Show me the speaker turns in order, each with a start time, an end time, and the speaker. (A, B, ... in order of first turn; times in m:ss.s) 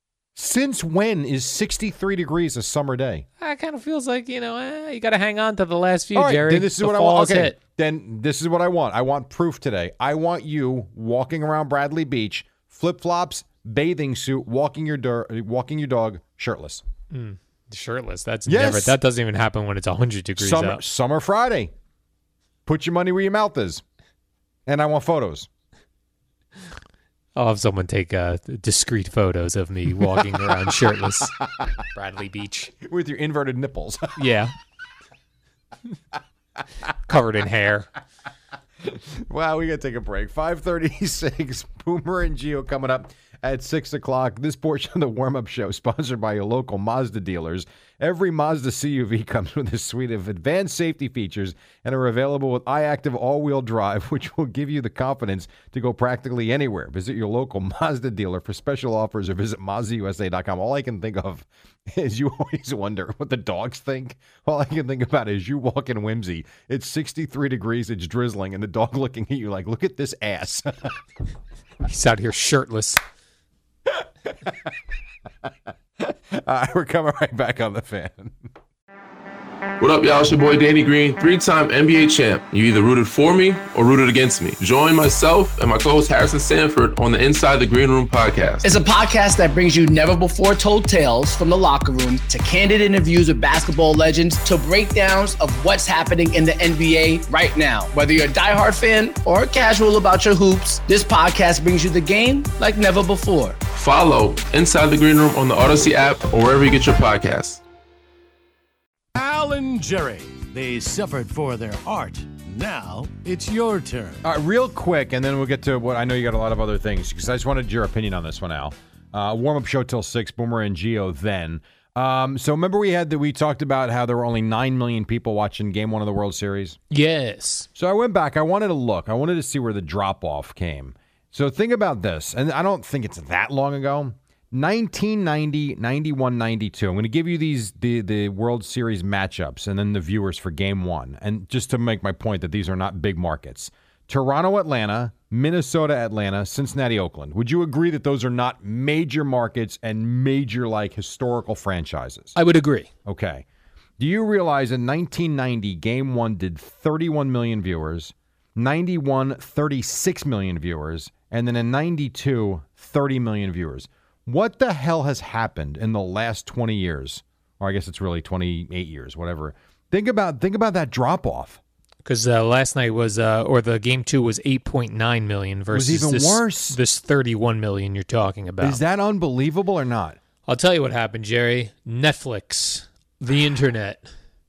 0:00.4-0:03.2 A
0:03.4-0:07.6 B
0:06.1-0:16.8 A
0:17.1-0:20.8 B
0:18.5-0:19.0 A
0:20.4-0:21.7 A
0:22.6-0:23.8 A
0:24.7-0:25.5 A
0:27.4-0:31.3 B
0:31.9-0:32.7 B
0:32.8-0:34.2 A
0:34.2-0:34.5 B
0:37.1-0:37.9 B
0:38.8-1:10.9 A
1:11.8-1:13.0 B
1:16.0-1:18.3 A
1:19.8-1:28.7 C
1:28.6-1:43.6 D
1:43.7-1:47.6 C
1:49.1-1:54.2 E
1:54.2-2:06.8 A
2:06.9-2:07.7 B
2:07.8-2:32.3 A
2:32.3-2:32.9 B
2:33.0-2:33.4 A
2:34.0-2:51.6 A
2:52.0-2:58.8 B
2:55.7-2:56.8 A
2:58.6-3:00.2 A
3:00.5-3:04.1 B